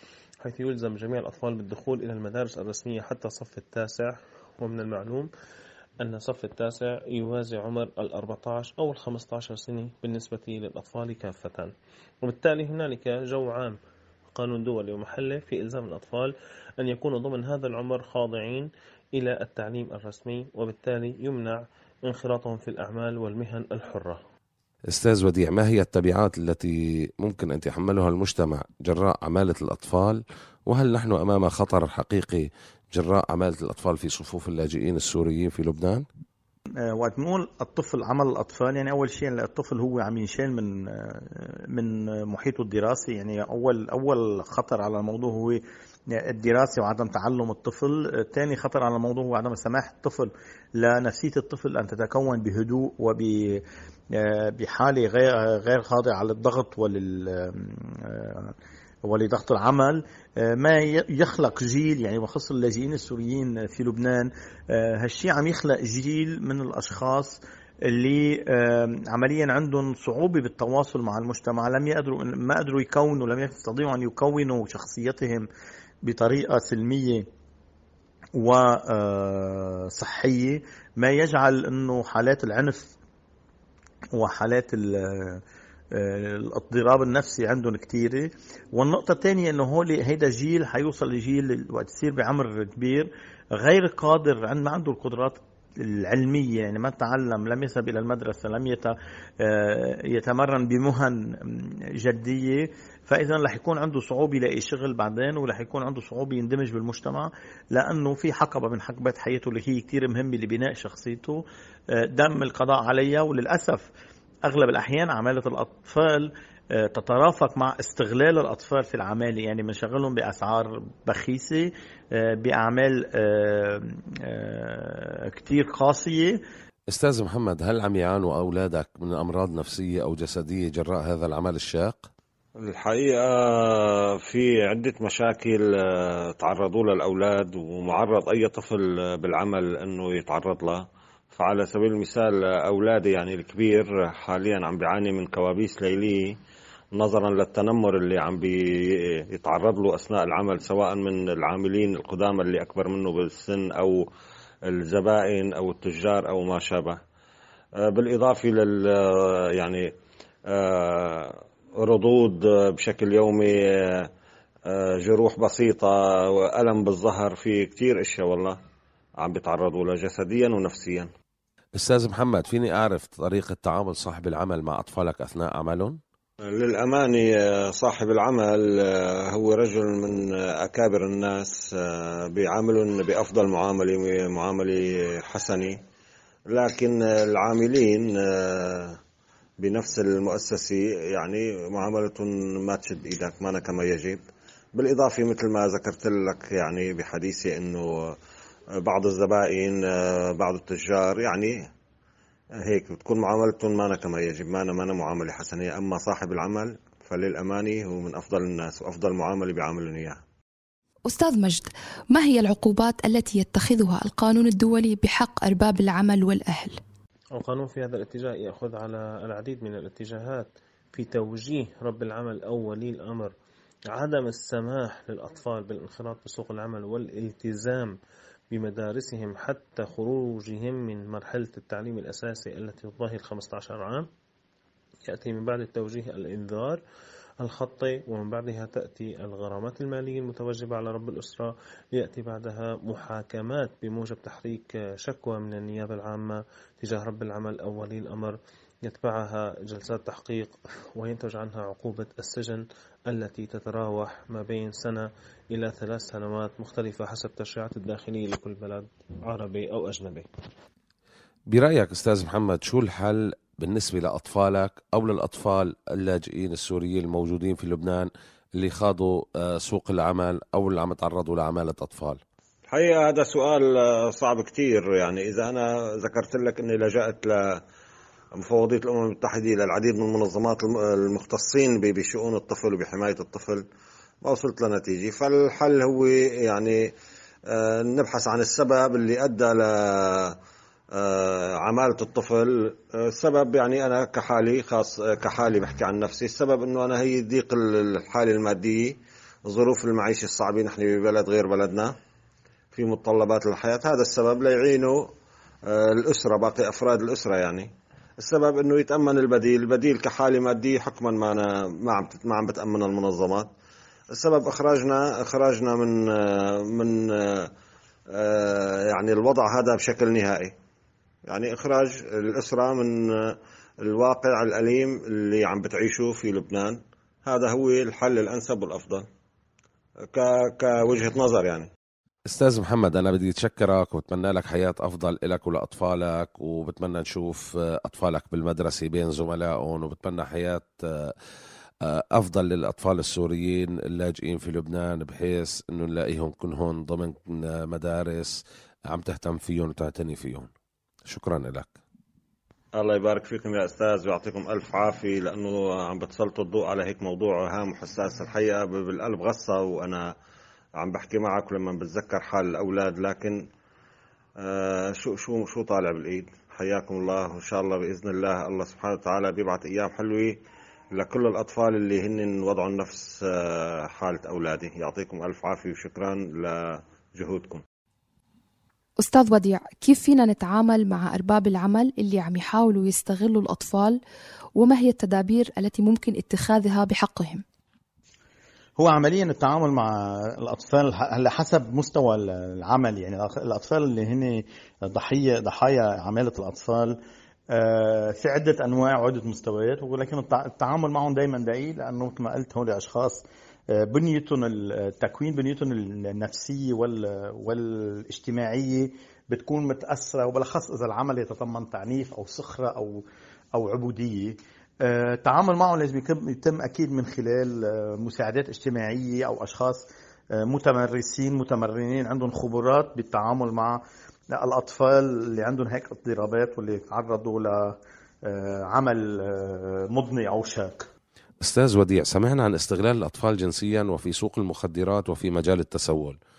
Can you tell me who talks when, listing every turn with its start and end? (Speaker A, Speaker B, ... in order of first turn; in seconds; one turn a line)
Speaker A: 0.5-5.3
Speaker A: 6.0-11.7
Speaker A: 12.2-13.8
Speaker A: 14.3-24.2
Speaker B: 24.9-36.1
Speaker C: 36.9-45.6
Speaker C: 46.1-53.6
Speaker C: 54.2-75.5
Speaker C: 76.0-77.2
Speaker C: 78.3-82.9
Speaker C: 84.1-85.4
Speaker C: 85.9-111.4
Speaker C: 112.0-113.9
Speaker C: 114.5-116.3
Speaker C: 116.9-126.4
Speaker B: 126.9-132.1
Speaker D: 132.7-135.6
Speaker D: 136.4-140.8
Speaker D: 141.3-146.2
Speaker D: 147.0-148.5
Speaker D: 149.4-154.0
Speaker D: 154.7-157.0
Speaker D: 157.9-159.8
Speaker D: 160.5-161.3
Speaker D: 161.9-163.5
Speaker D: 164.7-165.9
Speaker D: 166.5-168.6
Speaker D: 169.2-171.1
Speaker B: 171.8-176.0
Speaker D: 176.6-177.2
Speaker D: 177.8-178.6
Speaker D: 179.4-185.7
Speaker D: 186.6-188.9
Speaker D: 189.7-194.2
Speaker D: 194.8-197.9
Speaker D: 198.9-201.5
Speaker D: 202.7-210.2
Speaker E: 211.1-216.8
Speaker A: 217.4-223.3
Speaker A: 223.9-227.9
Speaker A: 228.5-234.1
Speaker A: 235.1-236.8
Speaker A: 237.4-260.3
Speaker B: 261.5-272.2
Speaker D: 272.7-277.4
Speaker D: 278.4-283.6
Speaker D: 284.3-286.8
Speaker D: 287.5-289.7
Speaker D: 291.0-298.9
Speaker D: 299.5-301.9
Speaker D: 302.7-304.9
Speaker D: 305.7-307.7
Speaker D: 308.2-313.5
Speaker D: 314.2-316.9
Speaker D: 318.3-320.5
Speaker D: 321.3-322.9
Speaker D: 323.9-326.8
Speaker D: 327.3-329.0
Speaker D: 330.1-331.7
Speaker B: 332.3-341.1
Speaker B: 341.9-350.5
Speaker B: 351.1-351.8
Speaker D: 352.8-360.0
Speaker D: 360.8-363.4
Speaker D: 364.5-370.3
Speaker D: 371.0-373.1
Speaker D: 374.0-376.5
Speaker D: 377.2-377.6
Speaker E: 379.0-384.0
Speaker E: 384.6-387.4
Speaker C: 388.8-397.0
Speaker C: 397.5-403.2
Speaker C: 403.8-419.9
Speaker C: 420.4-423.8
Speaker C: 424.3-427.8
Speaker C: 428.3-430.9
Speaker B: 431.4-436.2